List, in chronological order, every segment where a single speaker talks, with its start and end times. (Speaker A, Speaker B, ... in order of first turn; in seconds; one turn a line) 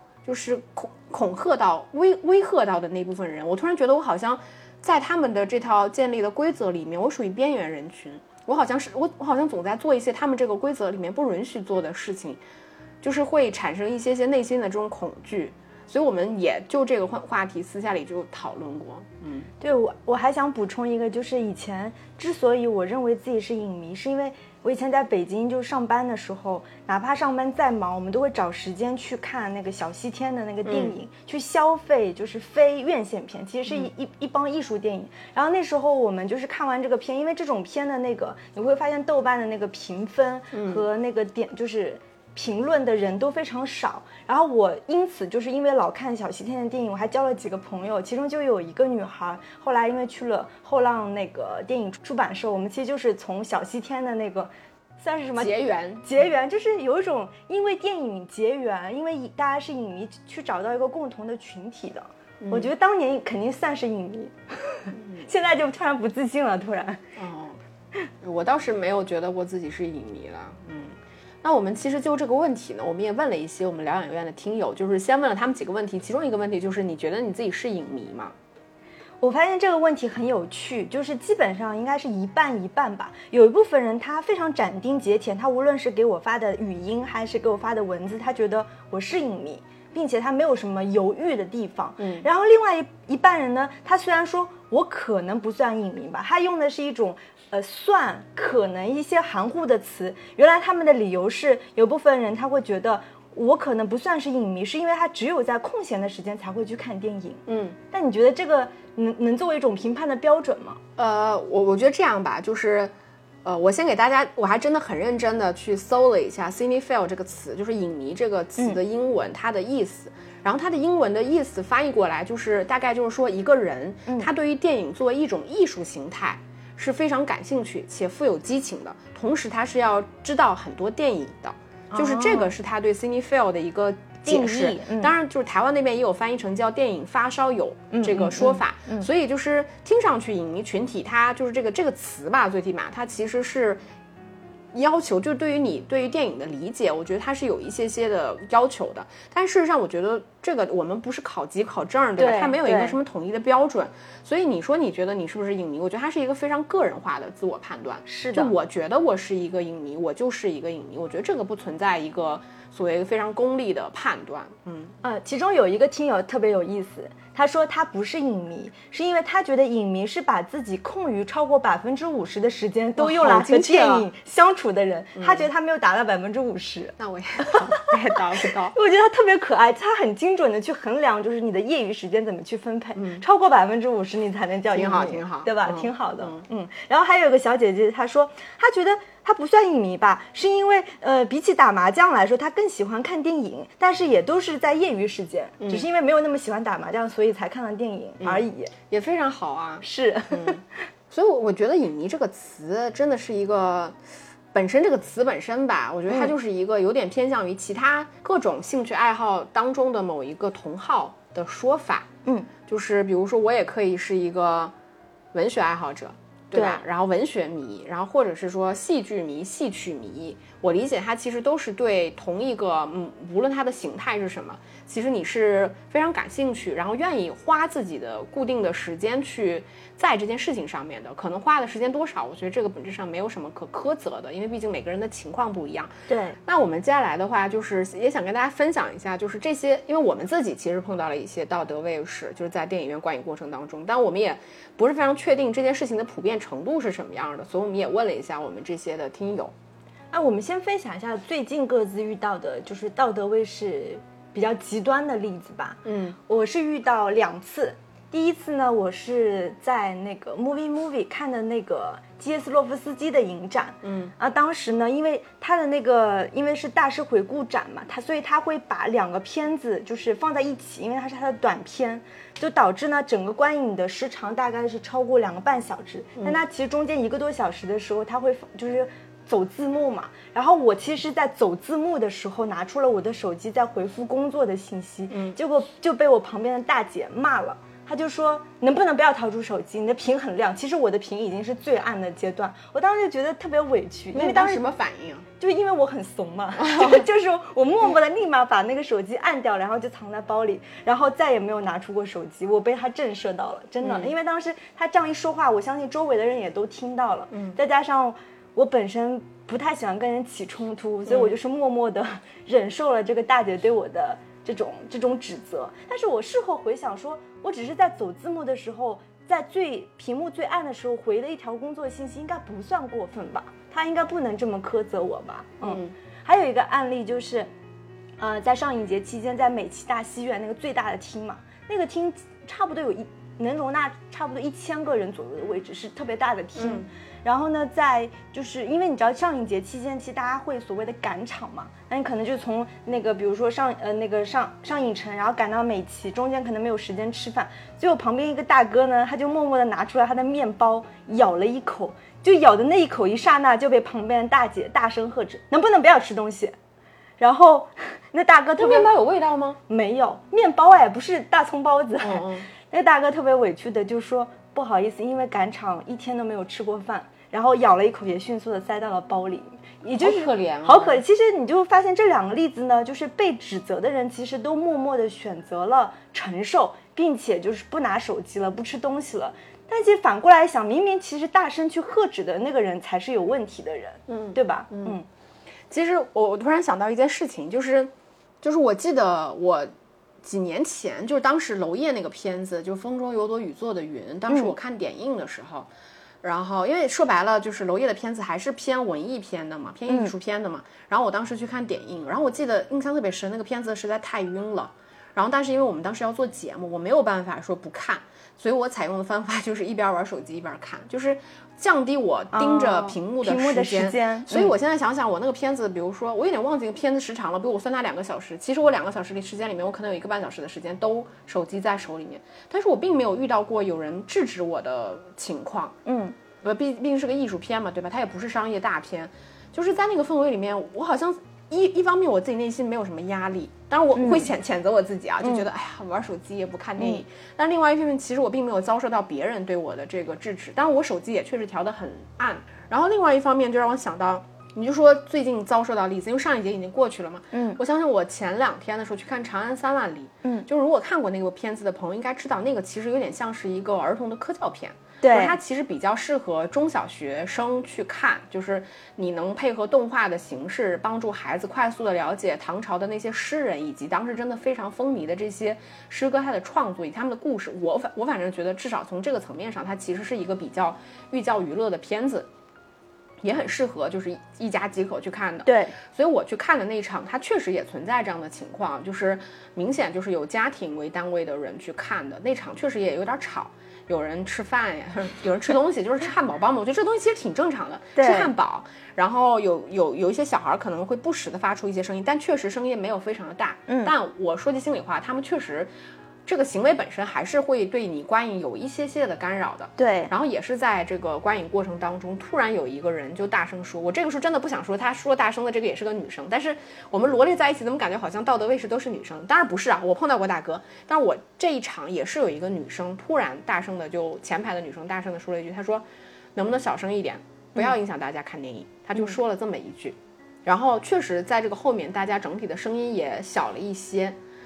Speaker A: 0.2-12.4
Speaker A: 13.0-19.5
Speaker B: 19.6-67.0
Speaker A: 30.6-30.9
Speaker A: 40.5-40.8
Speaker A: 55.4-56.1
Speaker A: 62.4-62.7
Speaker A: 64.9-65.2
Speaker A: 67.2-67.6
Speaker A: 68.2-78.3
Speaker B: 79.2-110.8
Speaker A: 92.0-92.2
Speaker A: 107.5-107.8
Speaker A: 111.0-112.9
Speaker A: 113.4-143.8
Speaker B: 131.9-132.5
Speaker B: 134.2-135.1
Speaker B: 137.9-139.1
Speaker A: 144.7-164.9
Speaker B: 152.2-153.0
Speaker B: 158.1-158.5
Speaker B: 165.0-178.2
Speaker A: 173.0-174.1
Speaker A: 175.2-175.4
Speaker A: 177.0-178.7
Speaker B: 178.7-198.7
Speaker A: 182.9-183.2
Speaker A: 184.7-186.4
Speaker A: 195.6-195.9
Speaker A: 198.2-204.0
Speaker B: 199.8-200.6
Speaker A: 204.5-212.1
Speaker A: 212.7-214.7
Speaker A: 215.3-235.9
Speaker B: 216.5-216.8
Speaker B: 236.1-236.4
Speaker A: 236.4-249.5
Speaker B: 250.1-294.6
Speaker A: 255.8-256.2
Speaker A: 263.8-264.1
Speaker A: 285.1-285.4
Speaker A: 294.1-295.2
Speaker B: 295.4-327.5
Speaker A: 296.6-297.1
Speaker A: 303.8-304.1
Speaker A: 307.3-307.6
Speaker A: 311.1-311.3
Speaker A: 325.6-325.9
Speaker B: 328.2-356.6
Speaker A: 336.6-336.9
Speaker B: 357.2-358.9
Speaker A: 358.6-359.6
Speaker B: 359.7-385.1
Speaker A: 362.0-362.5
Speaker A: 370.0-371.0
Speaker A: 384.1-385.0
Speaker A: 385.7-389.7
Speaker A: 390.2-395.7
Speaker A: 396.2-425.8
Speaker B: 399.9-400.1
Speaker B: 412.3-414.5
Speaker B: 425.9-426.1
Speaker A: 426.4-472.3
Speaker B: 433.9-434.3
Speaker B: 435.2-435.5
Speaker B: 447.3-447.6
Speaker B: 455.0-455.4
Speaker A: 473.2-495.7
Speaker B: 475.4-475.8
Speaker B: 487.9-488.3
Speaker B: 493.7-493.9
Speaker A: 496.2-524.2
Speaker B: 499.8-500.1